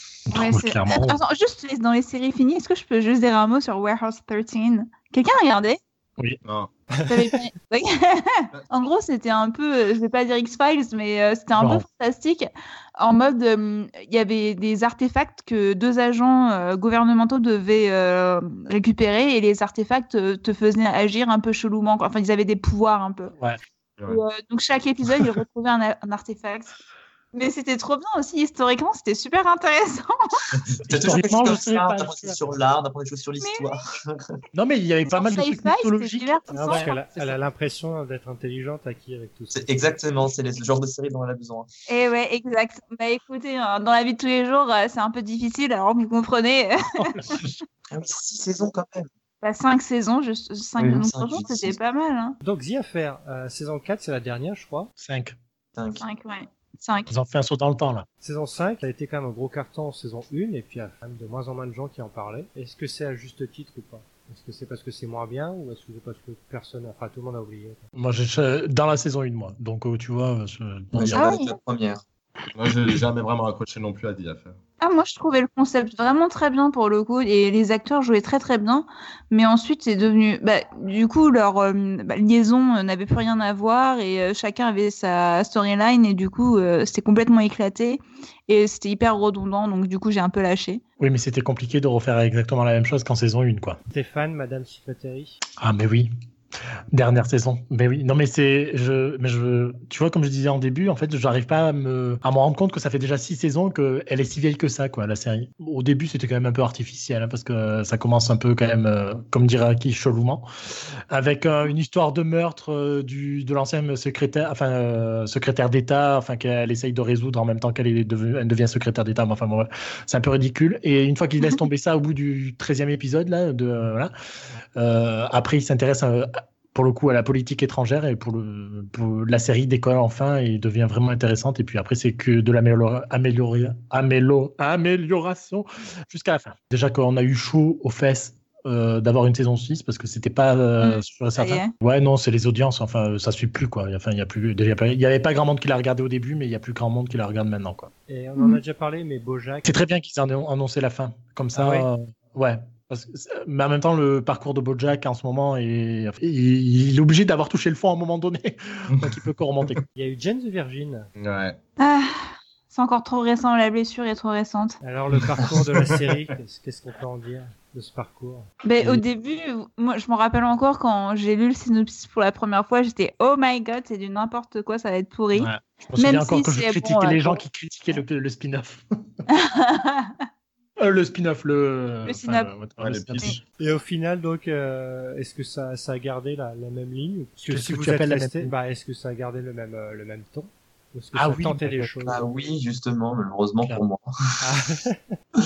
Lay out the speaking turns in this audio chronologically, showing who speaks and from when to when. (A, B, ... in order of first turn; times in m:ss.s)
0:00.3-0:01.2 A
0:00.3-0:05.8 B
0:06.4-0:06.7 C
0:07.0-0:07.3 D
0:07.1-0:23.3 B
0:11.6-0:11.8 A
0:24.1-0:26.7 B
0:27.3-0:30.2 B
0:30.9-0:32.5 A
0:30.9-0:34.2 E
0:33.4-0:33.8 B
0:34.5-0:37.3 A
0:35.1-0:36.9 B
0:36.5-0:40.1 D
0:39.5-0:41.7 E
0:41.9-0:47.4 B
0:47.0-0:47.5 A
0:47.9-0:49.1 E
0:49.4-0:52.4 B
0:50.8-0:51.8 E
0:52.4-0:54.9 D
0:55.0-0:55.4 A
0:55.8-0:56.0 E
0:56.0-0:57.1 B
0:57.1-0:58.1 A
0:58.2-1:07.8 D
1:08.0-1:11.4 A
1:11.0-1:12.0 E
1:11.1-1:11.5 B
1:12.6-1:14.6 C
1:14.8-1:30.8 B
1:31.0-1:33.8 A
1:33.9-1:35.4 D
1:35.6-1:36.1 A
1:36.9-1:50.5 A
1:51.1-2:04.1 A
2:04.8-2:27.9 A
2:20.8-2:21.7 B
2:28.1-2:29.8 D
2:29.6-2:39.8 A
2:31.6-2:31.9 D
2:40.0-2:41.1 D
2:41.2-2:41.6 C
2:41.8-2:42.2 B
2:42.7-2:44.8 B
2:44.8-2:48.5 D
2:48.6-2:57.4 B
2:55.3-2:58.8 A
2:59.3-3:00.1 B
3:00.8-3:03.4 A
3:02.1-3:02.5 B
3:02.8-3:03.4 C
3:03.6-3:12.2 D
3:07.5-3:08.5 A
3:11.1-3:12.0 A
3:12.0-3:14.1 E
3:14.4-3:15.2 D